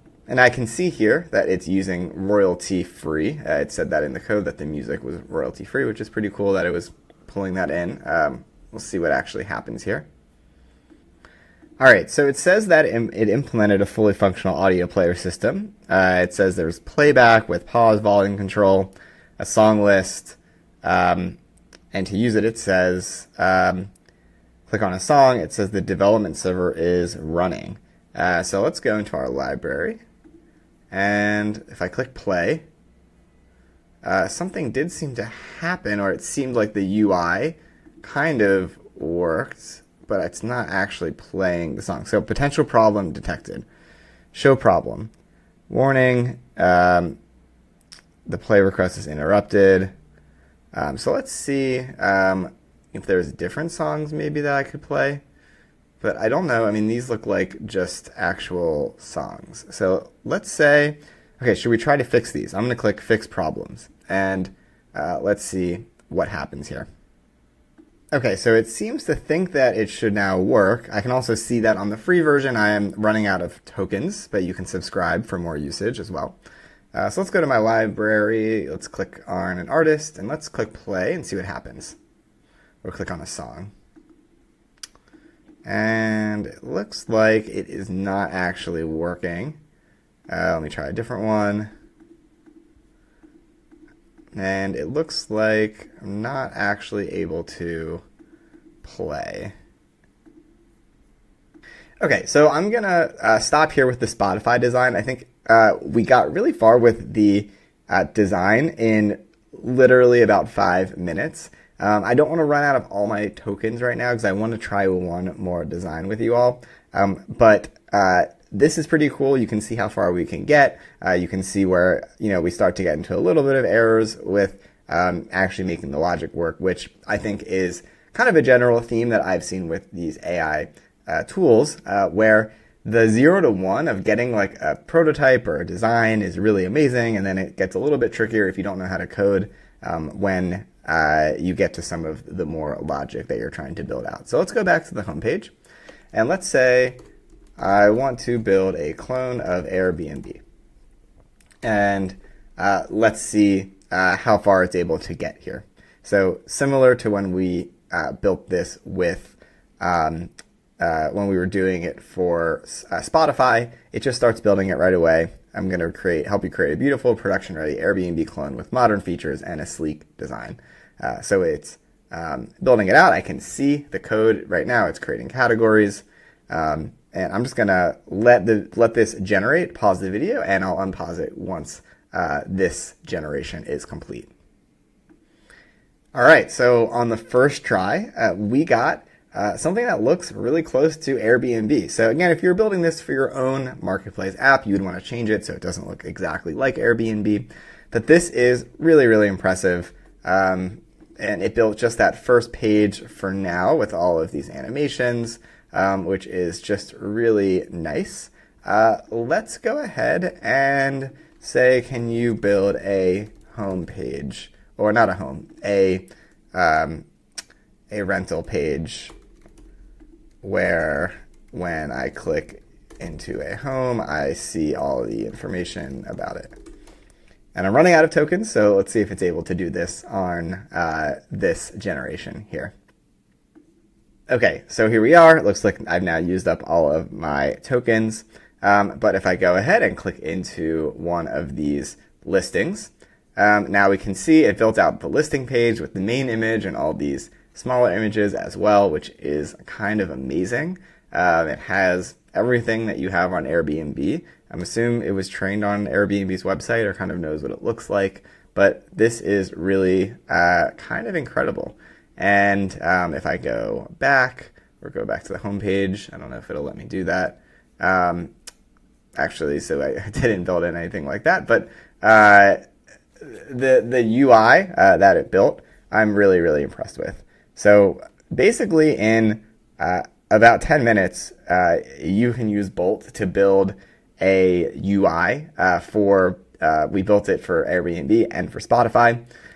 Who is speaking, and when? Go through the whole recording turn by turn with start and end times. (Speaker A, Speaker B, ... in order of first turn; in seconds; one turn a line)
Speaker A: 0.3-10.1
Speaker A: 11.8-21.4
Speaker A: 21.9-23.9
Speaker A: 24.7-30.0
Speaker A: 30.9-32.6
Speaker A: 34.0-43.6
Speaker A: 44.3-45.1
Speaker A: 45.7-47.2
Speaker A: 48.3-49.9
Speaker A: 50.7-55.2
Speaker A: 56.0-66.9
Speaker A: 68.1-76.4
Speaker A: 76.9-82.0
Speaker A: 82.8-83.7
Speaker A: 85.6-89.6
Speaker A: 90.3-91.7
Speaker A: 94.3-98.0
Speaker A: 98.8-99.5
Speaker A: 102.0-145.5
Speaker A: 146.1-147.0
Speaker A: 147.6-150.4
Speaker A: 151.6-184.3
Speaker A: 186.1-217.1
Speaker A: 217.9-219.1
Speaker A: 220.4-226.5
Speaker A: 227.5-232.7
Speaker A: 234.3-268.3
Speaker A: 269.2-272.6
Speaker A: 273.2-289.2